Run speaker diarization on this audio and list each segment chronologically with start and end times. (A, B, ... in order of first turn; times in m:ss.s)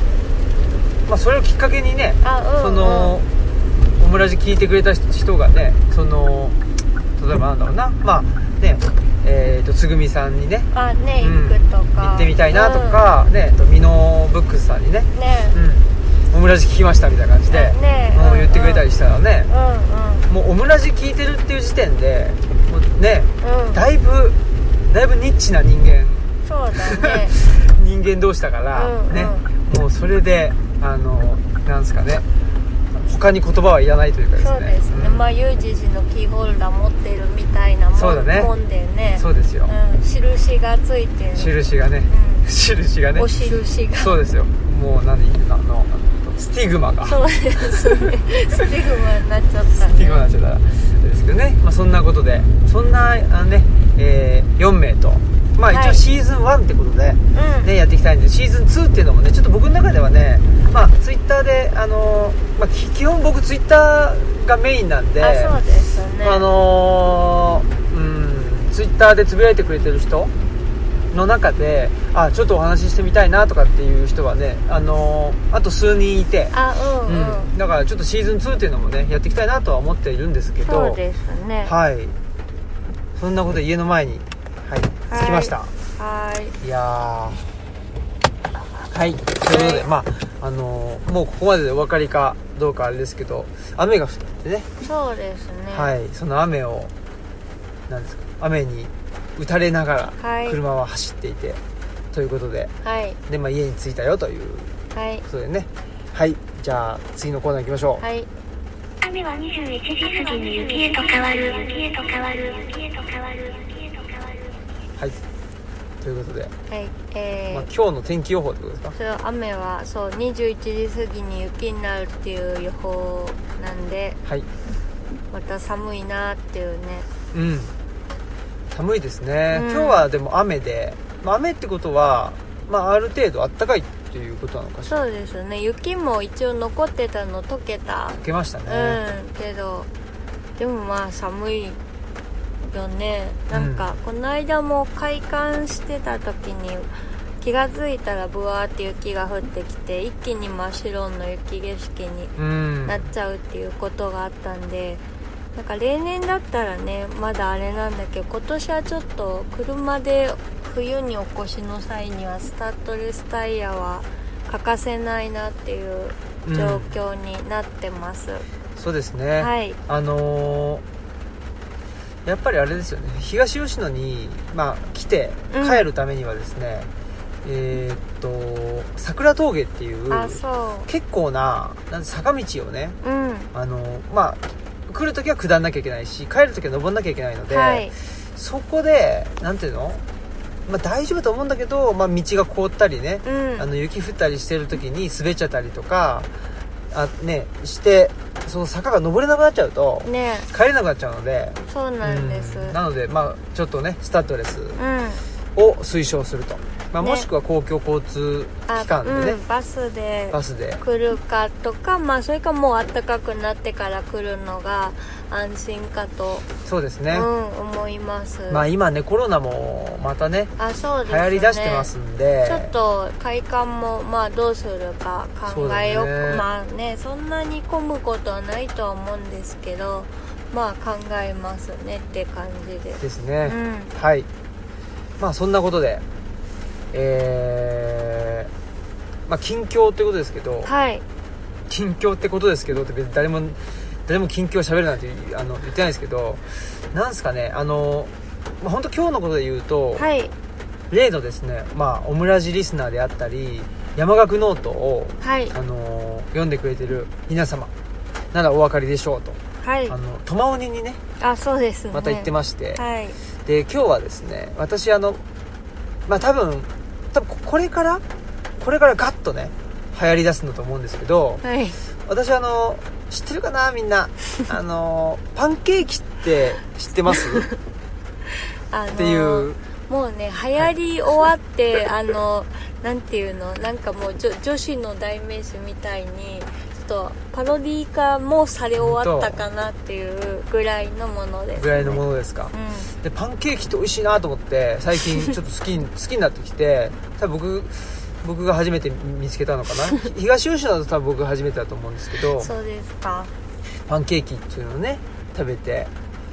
0:01.1-0:03.3 A
0:02.2-0:03.2 B
0:04.0-0:06.6 A
0:07.2-0:10.7 A
0:10.7-0:13.0 B
0:11.2-0:19.5 A
0:15.1-0:15.6 B
0:17.5-0:18.9 B
0:19.5-0:20.3 B
0:20.3-0:24.4 A
0:23.4-0:23.8 B
0:24.9-0:26.3 A
0:26.4-0:27.4 B
0:26.9-0:32.2 A
0:28.7-0:29.4 B
0:32.9-0:35.2 A
0:34.4-0:41.5 B
0:37.9-0:38.5 A
0:39.2-0:39.7 A
0:41.4-0:43.3 A
0:42.1-0:42.4 B
0:43.2-0:44.2 B
0:44.0-0:47.8 A
0:47.0-0:50.3 B
0:49.8-1:05.6 A
0:55.7-0:56.0 B
0:57.3-0:57.7 B
1:05.2-1:06.4 B
1:06.2-1:10.3 A
1:11.1-1:16.5 A
1:16.5-1:17.5 B
1:17.1-1:21.0 A
1:20.6-1:21.7 B
1:21.6-1:22.2 A
1:23.1-1:25.7 A
1:25.1-1:26.6 B
1:26.6-1:27.4 A
1:28.8-1:34.7 A
1:29.5-1:29.9 B
1:34.8-1:35.9 B
1:35.7-1:36.9 A
1:37.9-1:41.6 A
1:40.2-1:40.6 B
1:42.1-1:42.7 A
1:42.8-1:43.2 B
1:43.3-1:44.7 A
1:44.9-1:45.2 B
1:45.3-1:48.0 A
1:48.0-1:48.3 B
1:49.0-1:53.9 C
1:56.0-1:56.5 A
1:56.7-1:57.7 B
1:57.5-1:59.0 A
1:58.9-2:04.2 B
2:05.3-2:07.1 B
2:07.3-2:07.7 A
2:08.7-2:15.0 A
2:09.5-2:10.0 B
2:14.9-2:19.9 B
2:18.2-2:19.0 A
2:20.6-2:21.8 B
2:22.7-2:32.3 B
2:23.5-2:23.9 A
2:32.4-2:33.1 A
2:32.8-2:35.0 B
2:35.5-2:48.4 B
2:46.4-2:47.0 A
2:48.8-2:50.8 A
2:49.4-2:49.8 B
2:52.2-2:56.9 A
2:55.5-2:55.9 B
2:57.4-3:03.0 A
3:00.1-3:00.9 B
3:03.0-3:03.5 B
3:03.5-3:10.0 A
3:07.5-3:07.9 B
3:10.6-3:16.3 A
3:13.2-3:13.7 B
3:16.9-3:24.8 A
3:20.0-3:20.5 B
3:21.7-3:22.8 B
3:24.8-3:25.2 B
3:25.6-3:29.4 A
3:27.0-3:27.3 B
3:28.7-3:36.5 B
3:30.3-3:30.8 A
3:36.6-3:37.3 A
3:37.1-3:38.6 B
3:38.5-3:40.5 A
3:40.6-3:41.9 B
3:41.0-3:42.7 A
3:42.4-3:53.9 B
3:45.5-3:46.4 A
3:53.0-3:54.3 A
3:55.2-3:56.0 A
3:56.9-3:58.5 A
3:59.3-4:00.7 A
4:00.6-4:01.0 B
4:01.7-4:10.1 A
4:10.0-4:10.3 B
4:10.9-4:17.7 A
4:15.2-4:15.5 B
4:18.3-4:21.0 A
4:19.6-4:20.0 B
4:21.2-4:23.2 B
4:21.9-4:22.8 A
4:23.4-4:25.2 A
4:26.1-4:28.0 A
4:28.6-4:31.4 A
4:31.4-4:31.8 B
4:32.0-4:37.5 A
4:37.1-4:37.6 B
4:38.7-4:52.9 B
4:39.0-4:39.6 A
4:48.8-4:49.4 A
4:51.6-5:02.5 A
5:02.4-5:03.3 B
5:03.9-5:05.9 A